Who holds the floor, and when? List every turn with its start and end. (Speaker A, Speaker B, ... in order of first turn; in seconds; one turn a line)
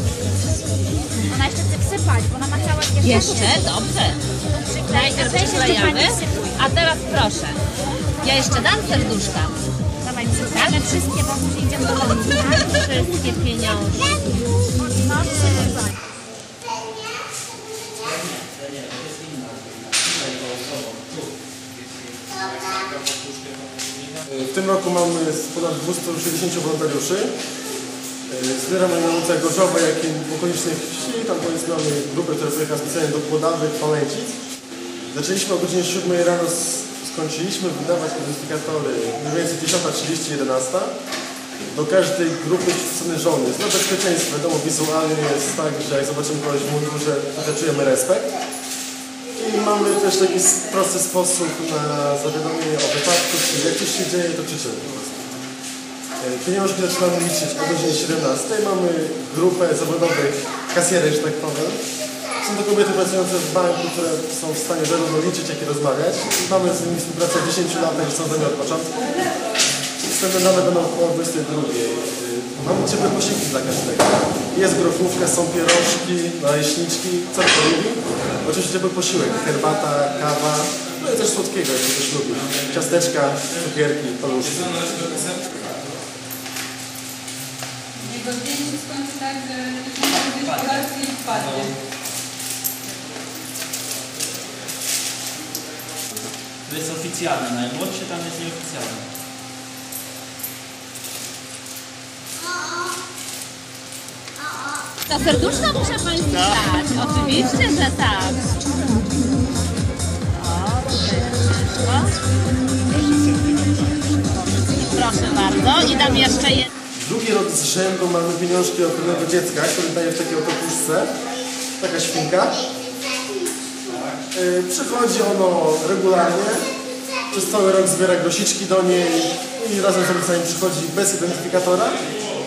Speaker A: 1.2-3.6
Speaker B: 3.0-4.2
Speaker A: 4.5-6.6
Speaker B: 4.8-7.6
Speaker B: 8.2-9.6
Speaker A: 10.0-12.7
Speaker B: 10.4-10.9
Speaker B: 12.2-14.2
Speaker A: 15.1-15.4
Speaker C: 18.0-21.3
Speaker C: 22.1-24.1
Speaker D: 24.3-27.3
Speaker D: 28.3-34.4
Speaker D: 35.1-40.9
Speaker D: 41.7-48.3
Speaker D: 49.4-55.4
Speaker D: 56.2-61.8
Speaker D: 62.4-69.2
Speaker D: 70.0-85.3
Speaker E: 88.0-91.7
Speaker C: 91.4-91.7
Speaker C: 96.7-99.0
Speaker B: 105.1-108.5
Speaker B: 110.3-112.1
Speaker B: 114.8-116.7
Speaker D: 117.0-121.1
Speaker D: 121.8-122.7
Speaker D: 124.3-126.6
Speaker D: 127.3-132.1